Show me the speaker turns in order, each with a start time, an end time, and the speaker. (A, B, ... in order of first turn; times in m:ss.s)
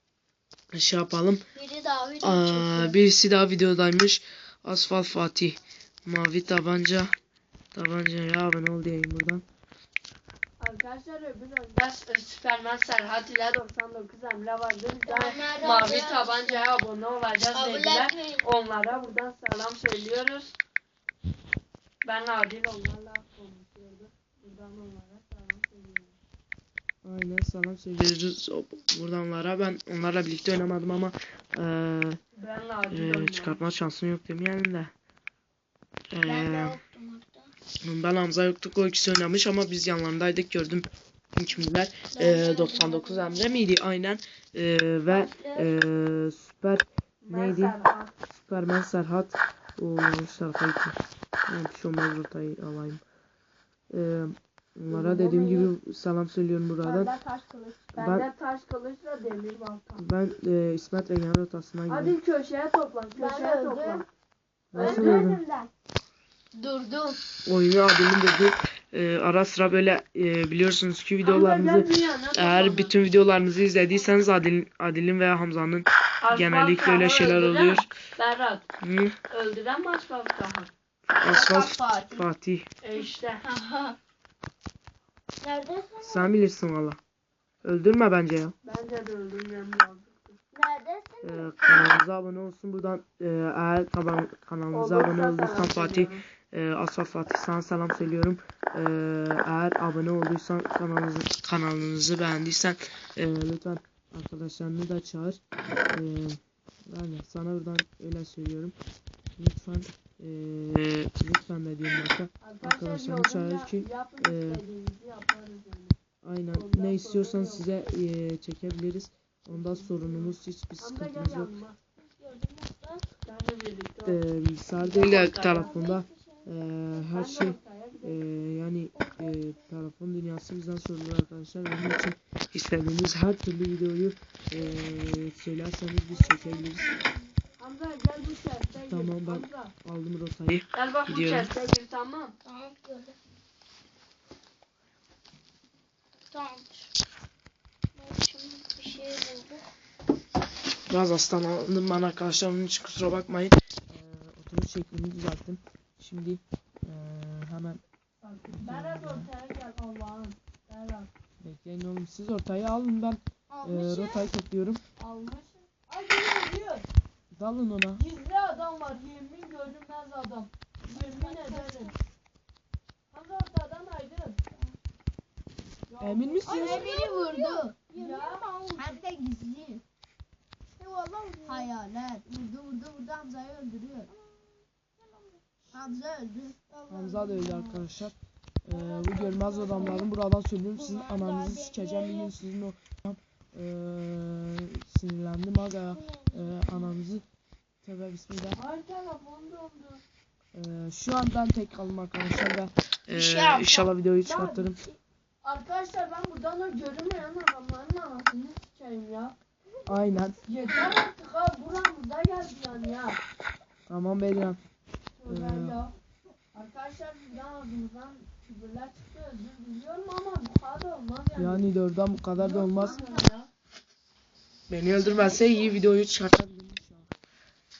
0:00.7-0:01.4 A
0:01.6-0:03.0 B
0:02.2-0:07.1 A
0:07.7-0:09.4 A
0:10.6-0:20.6 C
0:15.1-0:16.7 B
0:17.5-0:18.4 B
0:22.0-0:26.2 C
0:27.0-0:32.2 A
0:32.4-0:33.6 C
0:32.9-0:34.9 A
0:36.1-0:36.8 A
0:36.2-0:37.5 B
0:37.8-0:47.8 A
0:42.2-0:43.6 B
0:45.1-0:45.7 B
0:47.2-0:48.1 C
0:48.3-0:51.0 A
0:51.5-0:53.0 A
0:53.9-0:57.1 A
0:54.9-0:55.7 C
0:56.8-0:57.8 B
0:57.9-1:00.0 C
0:58.0-0:58.3 A
1:00.0-1:02.2 A
1:01.9-1:04.1 C
1:03.2-1:04.0 B
1:04.7-1:05.4 A
1:04.7-1:05.4 C
1:04.8-1:05.7 B
1:06.6-1:07.2 B
1:07.5-1:17.9 A
1:11.2-1:12.9 C
1:16.2-1:18.6 C
1:18.8-1:19.2 A
1:19.3-1:20.7 C
1:21.2-1:22.7 A
1:21.3-1:22.2 B
1:22.8-1:23.6 C
1:25.4-1:26.3 B
1:26.0-1:27.0 A
1:27.6-1:28.5 A
1:28.6-1:30.4 C
1:30.5-1:31.5 B
1:31.2-1:45.4 A
1:34.7-1:36.2 C
1:45.9-1:48.8 A
1:49.4-1:54.6 A
1:52.4-1:56.0 C
1:56.2-2:01.5 A
1:56.5-1:57.7 C
1:59.5-2:01.8 C
2:02.0-2:03.0 B
2:03.2-2:04.2 C
2:04.0-2:16.9 A
2:04.8-2:05.9 C
2:05.5-2:06.5 B
2:07.0-2:08.2 C
2:09.0-2:09.6 B
2:16.1-2:17.3 B
2:17.6-2:19.7 C
2:18.8-2:21.5 A
2:20.7-2:22.4 C
2:22.4-2:23.2 B
2:26.3-2:26.9 B
2:28.0-2:29.6 B
2:30.9-2:37.8 A
2:38.2-2:41.1 C
2:38.5-2:39.3 A
2:41.4-2:44.8 A
2:43.5-2:44.3 B
2:45.0-2:46.9 C
2:47.4-2:48.0 A
2:48.0-2:52.0 C
2:50.9-2:52.0 B
2:53.1-2:54.4 C
2:55.9-2:58.6 C
2:56.0-2:56.9 A
2:56.5-2:59.8 B
3:01.4-3:04.1 B
3:05.7-3:07.8 B
3:06.9-3:17.2 A
3:08.7-3:10.0 C
3:09.7-3:10.1 B
3:10.8-3:12.3 B
3:15.9-3:16.9 B
3:17.8-3:18.6 A
3:18.6-3:20.0 C
3:20.5-3:24.8 A
3:23.1-3:23.9 B
3:24.2-3:24.8 C
3:25.4-3:29.4 C
3:29.9-3:30.4 A
3:30.4-3:33.2 C
3:33.9-3:34.6 A
3:35.2-3:35.9 C
3:35.3-3:35.8 A
3:36.5-3:41.7 C
3:41.4-3:43.0 A
3:42.3-3:43.5 C
3:44.7-3:47.1 A